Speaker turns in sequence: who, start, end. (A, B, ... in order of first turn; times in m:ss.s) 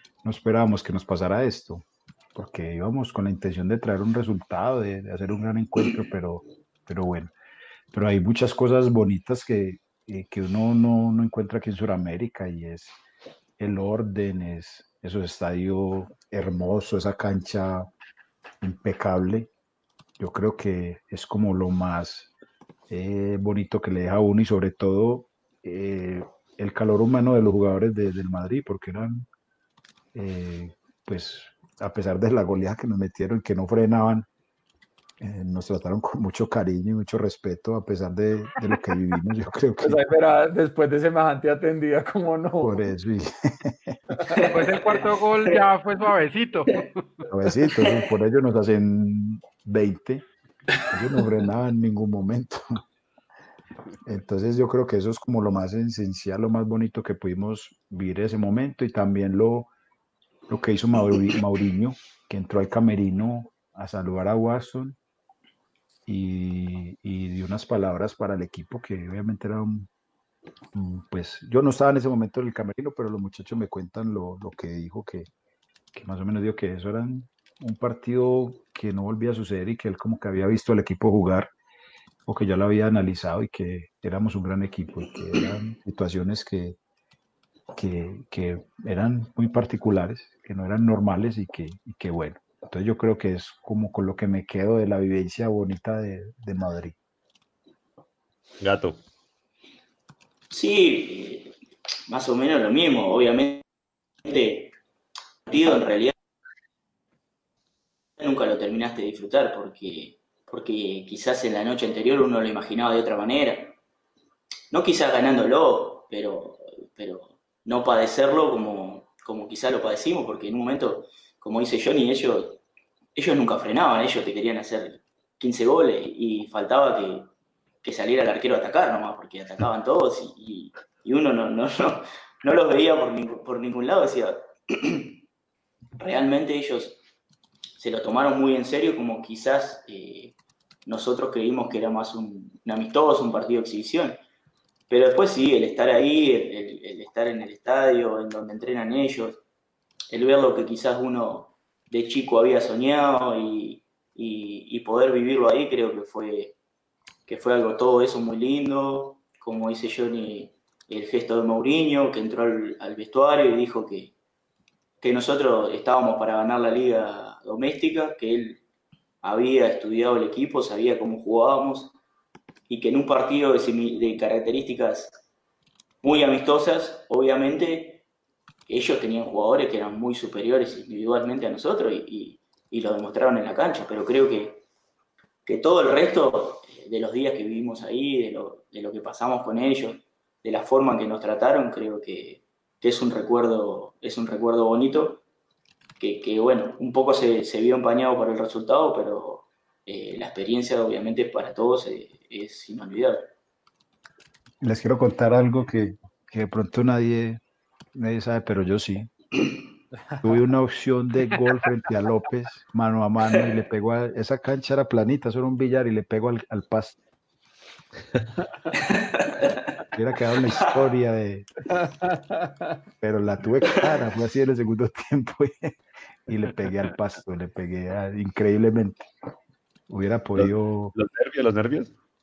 0:00.2-0:07.3 A
0:07.9-0:13.0 A
0:13.6-0:17.9 A
0:18.6-0:19.5 A
0:20.2-0:22.3 A
0:22.9-0:29.3 A
0:30.1-0:34.3 A
0:35.2-0:40.0 A
0:39.8-0:42.7 B
0:42.6-0:44.0 A
0:44.4-0:47.3 C
0:47.3-0:50.2 A
0:47.7-0:48.0 D
0:50.9-0:52.8 A
0:54.0-0:59.7 A
1:00.5-1:05.0 A
1:06.0-1:09.9 A
1:10.7-1:15.3 A
1:15.9-1:21.5 A
1:22.3-1:26.8 A
1:27.7-1:37.0 A
1:38.6-1:39.0 E
1:40.5-1:41.5 D
1:42.1-1:43.6 D
1:44.2-1:44.7 D
1:45.5-1:46.1 D
1:48.2-1:53.8 D
1:54.7-2:02.6 D
2:03.2-2:07.3 D
2:07.8-2:15.1 D
2:16.0-2:17.0 D
2:17.8-2:20.3 D
2:20.8-2:24.2 D
2:24.9-2:29.4 D
2:30.1-2:36.5 D
2:37.3-2:44.1 D
2:45.0-2:48.6 D
2:49.2-2:52.0 D
2:52.7-2:55.2 D
2:56.0-2:58.0 D
2:58.7-3:04.6 D
3:05.4-3:15.2 D
3:16.0-3:23.2 D
3:24.6-3:27.4 A
3:27.9-3:29.1 A
3:30.2-3:37.0 A
3:38.8-3:39.7 D
3:39.9-3:41.5 A
3:41.8-3:42.8 B
3:43.0-3:49.1 A
3:49.9-3:50.9 A
3:50.4-3:51.9 E